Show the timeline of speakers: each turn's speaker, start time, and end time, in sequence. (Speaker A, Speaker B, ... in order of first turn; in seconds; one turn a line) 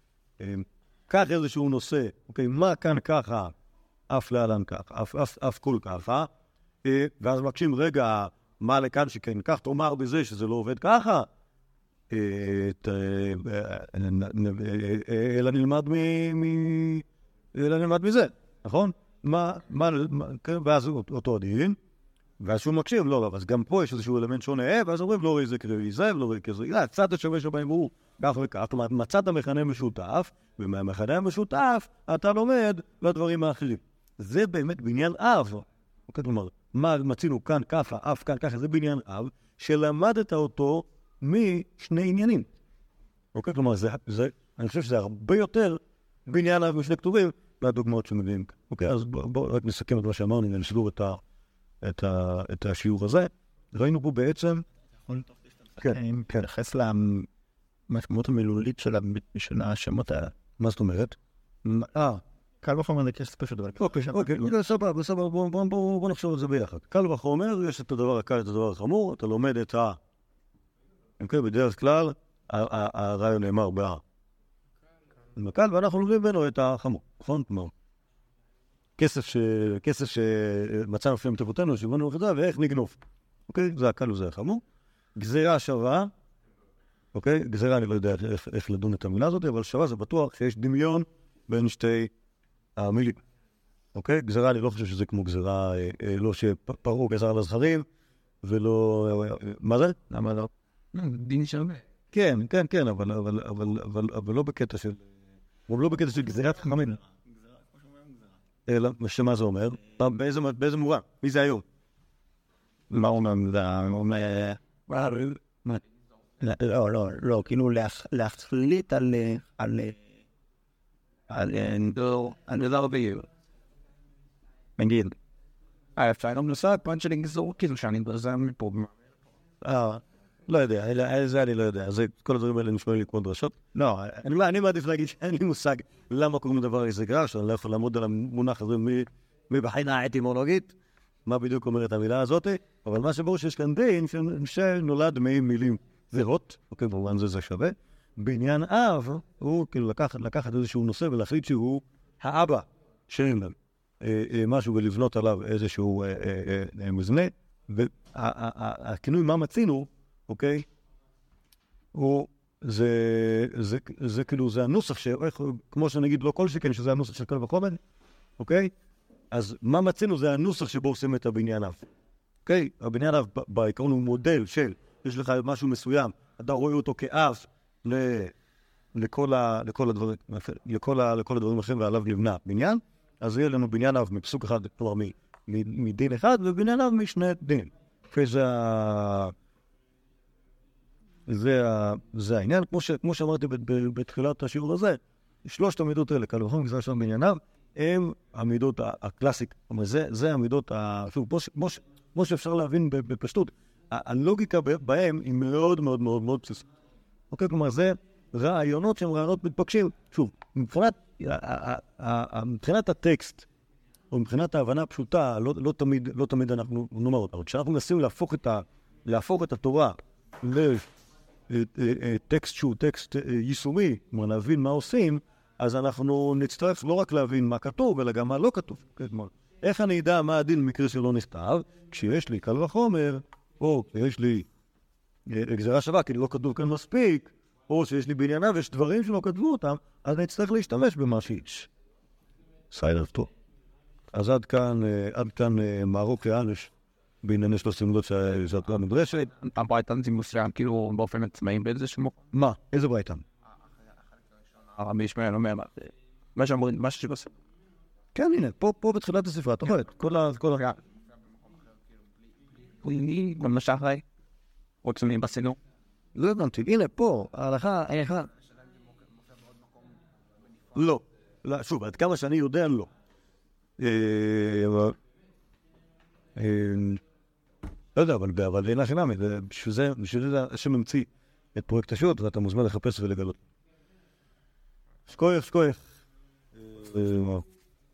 Speaker A: 0.4-3.5
Speaker A: 4.1-6.3
Speaker A: 6.8-11.3
Speaker A: 12.1-21.8
Speaker A: 22.4-42.5
Speaker A: 43.3-51.2
Speaker A: 51.8-54.6
Speaker B: 55.1-57.3
Speaker B: 57.9-60.3
Speaker A: 60.6-62.2
Speaker B: 62.6-64.5
Speaker A: 63.8-70.0
Speaker A: 71.2-74.0
Speaker A: 75.3-77.7
Speaker A: 79.0-84.6
Speaker A: 85.2-86.1
Speaker A: 87.1-92.1
Speaker A: 92.8-93.2
Speaker A: 93.9-97.8
Speaker A: 98.4-100.5
Speaker C: 100.9-101.8
Speaker A: 102.1-105.0
Speaker A: 105.7-107.0
Speaker A: 108.7-111.6
Speaker B: 112.9-114.6
Speaker C: 114.9-115.4
Speaker B: 116.4-120.0
Speaker B: 121.3-122.0
Speaker C: 121.9-123.3
Speaker B: 124.8-125.2
Speaker C: 126.0-128.9
Speaker A: 129.6-140.7
Speaker A: 141.2-160.7
Speaker A: 161.9-167.8
Speaker A: 168.4-168.7
Speaker A: 169.3-171.8
Speaker A: 172.4-178.3
Speaker A: 178.9-189.3
Speaker A: 191.3-206.7
Speaker A: 207.3-213.5
Speaker A: 214.1-220.8
Speaker A: 221.5-234.5
Speaker A: 235.3-241.7
Speaker A: 242.7-243.3
Speaker A: 244.1-246.7
Speaker A: 247.2-249.3
Speaker C: 249.3-252.2
Speaker A: 252.3-253.2
Speaker C: 254.7-257.3
Speaker A: 258.1-260.7
Speaker C: 262.8-264.0
Speaker C: 264.8-265.6
Speaker A: 266.1-268.3
Speaker A: 270.7-272.9
Speaker A: 273.8-274.9
Speaker A: 276.4-277.0
Speaker A: 277.9-283.4
Speaker A: 285.1-285.8
Speaker A: 286.7-287.4